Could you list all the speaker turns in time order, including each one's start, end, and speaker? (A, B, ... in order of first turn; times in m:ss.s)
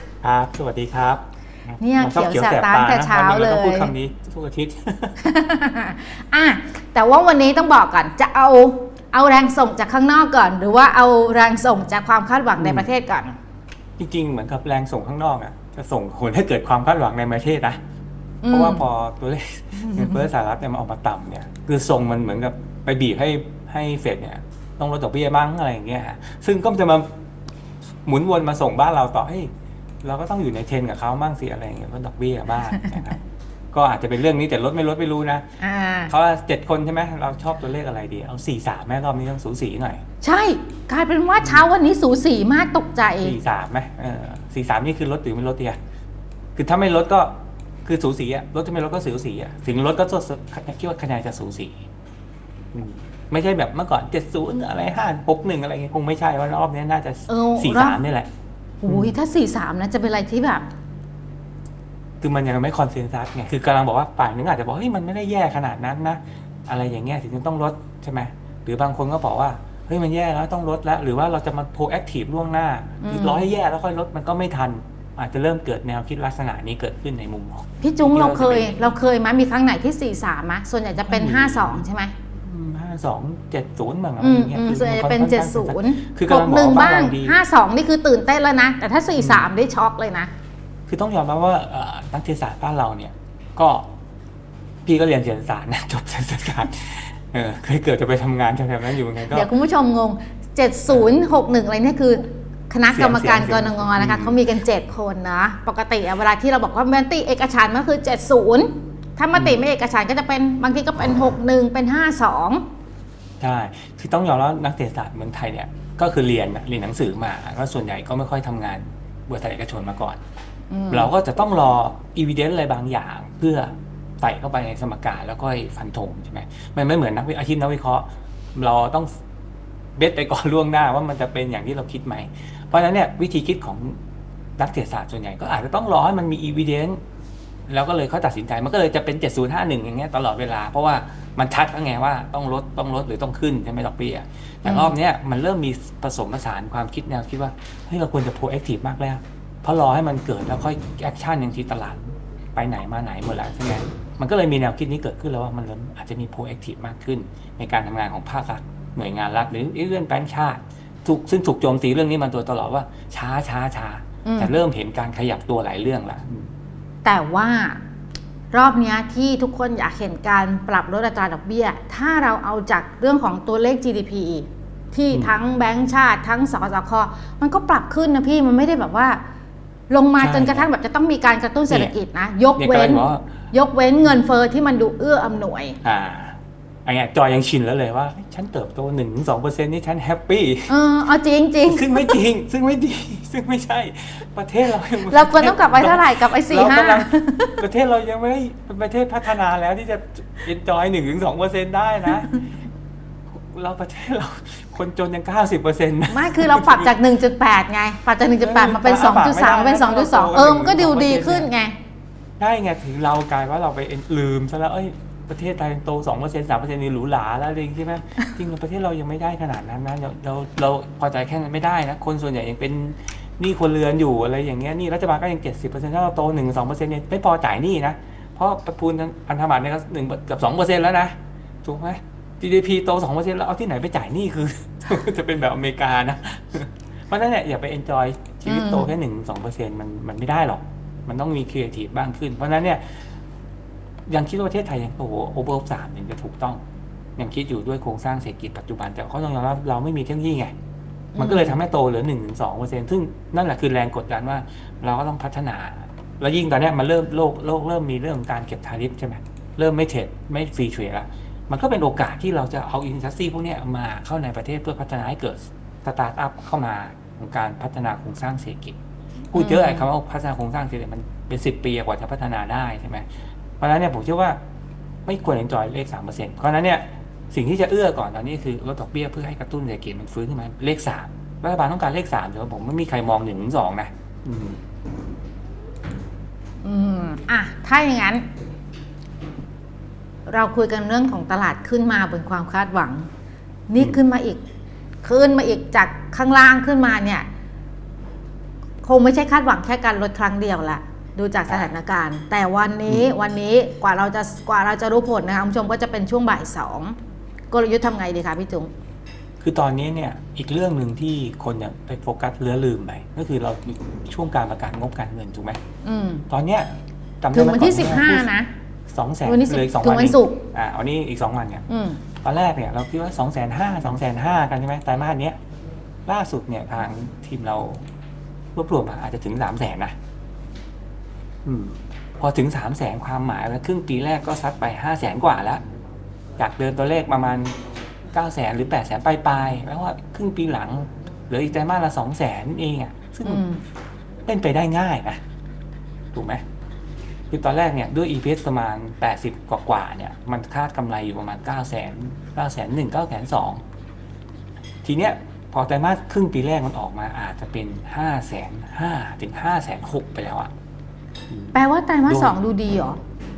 0:00.2-0:05.2 A
0:01.8-0:03.9 B
0:05.2-0:13.4 B
0:12.6-0:12.9 A
0:14.0-0:17.8 A
0:18.4-0:18.8 B
0:18.5-0:27.1 A
0:19.8-0:20.3 B
0:28.0-0:29.5 A
0:30.0-0:33.2 A
0:33.7-0:35.4 A
0:35.6-0:36.1 B
0:36.1-0:40.0 A
0:40.2-0:43.4 B
0:41.4-0:41.7 A
0:43.2-0:45.8 A
0:46.6-0:47.3 A
0:47.8-0:51.9 A
0:52.7-0:58.3 A
0:57.3-0:58.0 B
0:58.8-1:00.7 B
0:58.9-0:59.2 A
1:02.2-1:18.9 A
1:13.0-1:13.5 B
1:17.8-1:22.1 B
1:21.0-1:21.8 A
1:22.4-1:27.4 A
1:24.2-1:30.3 B
1:29.2-1:29.5 A
1:30.9-1:33.9 A
1:34.8-1:39.5 A
1:39.3-1:52.6 B
1:42.9-1:44.4 A
1:49.3-1:49.6 A
1:53.4-2:00.2 A
2:00.7-2:01.1 B
2:00.9-2:09.1 A
2:10.0-2:14.0 A
2:14.6-2:17.0 A
2:17.7-2:46.5 A
2:24.6-2:24.9 B
2:44.2-2:44.5 B
2:47.0-2:47.8 B
2:48.5-2:59.2 B
2:59.9-3:05.8 B
3:00.2-3:00.7 A
3:02.6-3:03.3 A
3:05.8-3:10.7 A
3:10.7-3:12.2 B
3:11.7-3:22.4 A
3:15.1-3:17.6 B
3:23.3-3:26.9 A
3:26.1-3:31.8 B
3:28.4-3:31.5 A
3:32.4-4:02.8 A
3:58.5-3:58.9 B
4:04.1-4:06.6 A
4:07.2-4:10.5 A
4:11.2-4:11.6 B
4:11.2-4:28.8 A
4:29.3-4:33.1 A
4:29.3-4:29.9 B
4:33.6-4:34.4 A
4:35.1-4:44.6 A
4:46.6-4:48.3 B
4:50.3-4:53.1 B
4:53.7-4:54.4 B
4:55.0-4:57.3 B
4:58.8-5:07.0 B
5:07.5-5:08.7 B
5:09.4-5:15.6 A
5:15.8-5:16.3 B
5:16.3-5:18.3 A
5:17.3-5:18.5 B
5:18.9-5:21.6 A
5:19.2-5:20.4 B
5:21.7-5:22.0 B
5:22.2-5:25.4 A
5:26.1-5:27.8 A
5:28.6-5:29.9 A
5:31.4-5:35.6 A
5:36.4-5:37.6 A
5:38.1-5:43.4 A
5:43.2-5:43.6 B
5:44.3-5:45.2 A
5:46.1-5:46.4 A
5:47.3-5:53.6 A
5:54.8-6:00.5 A
6:01.3-6:02.4 A
6:01.5-6:03.0 B